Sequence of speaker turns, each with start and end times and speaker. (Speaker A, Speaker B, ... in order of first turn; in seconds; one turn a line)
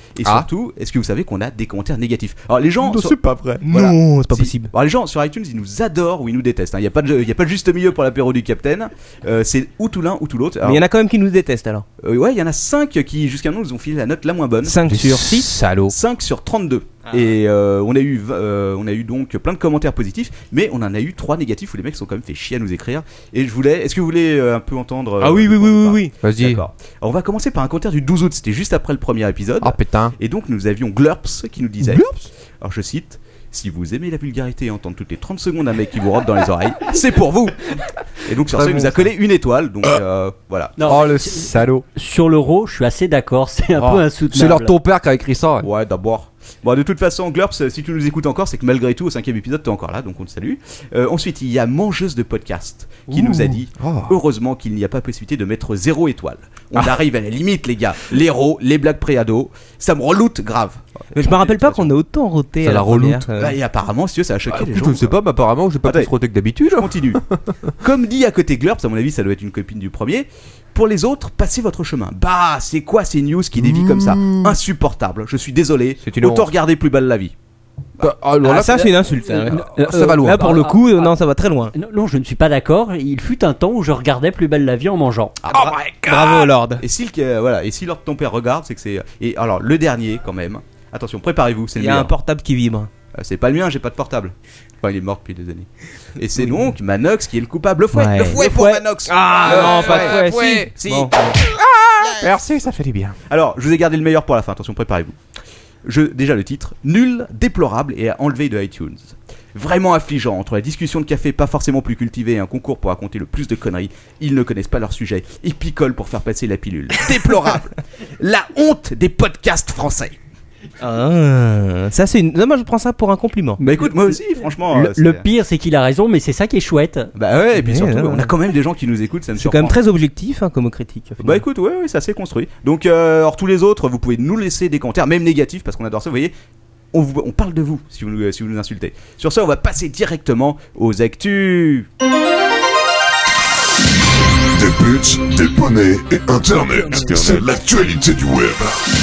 Speaker A: 0.1-10.8
Speaker B: 2.8-3.6
Speaker C: 3.6-4.7
Speaker C: 10.6-11.9
Speaker A: 12.0-14.8
Speaker C: 14.6-15.5
Speaker B: 14.9-15.9
Speaker A: 15.9-40.8
Speaker C: 17.1-17.3
Speaker C: 25.2-26.1
Speaker B: 26.2-26.6
Speaker B: 29.6-30.1
Speaker B: 31.8-32.2
Speaker B: 38.5-39.1
Speaker D: 40.8-44.7
Speaker B: 40.9-41.9
Speaker B: 43.8-45.7
Speaker A: 45.6-61.9
Speaker B: 53.1-54.2
Speaker C: 61.1-63.6
Speaker B: 62.6-63.3
Speaker A: 63.4-65.2
Speaker B: 64.5-67.7
Speaker A: 65.8-66.1
Speaker A: 66.7-67.2
Speaker A: 67.8-77.3
Speaker B: 73.6-74.6
Speaker B: 76.0-76.5
Speaker B: 78.0-80.6
Speaker C: 78.4-81.8
Speaker D: 79.5-81.1
Speaker D: 81.7-85.4
Speaker A: 85.4-85.8
Speaker C: 85.5-86.8
Speaker A: 86.8-92.1
Speaker C: 91.8-92.9
Speaker A: 93.1-101.1
Speaker C: 96.4-96.7
Speaker C: 97.9-98.5
Speaker B: 98.4-100.7
Speaker C: 99.0-101.4
Speaker B: 101.6-103.2
Speaker A: 103.3-105.2
Speaker A: 105.8-120.2
Speaker C: 120.8-123.6
Speaker D: 123.6-127.1
Speaker A: 123.6-125.3
Speaker A: 127.2-129.8
Speaker C: 127.5-128.3
Speaker C: 129.4-131.4
Speaker A: 131.2-136.3
Speaker A: 136.9-141.9
Speaker E: 144.6-148.8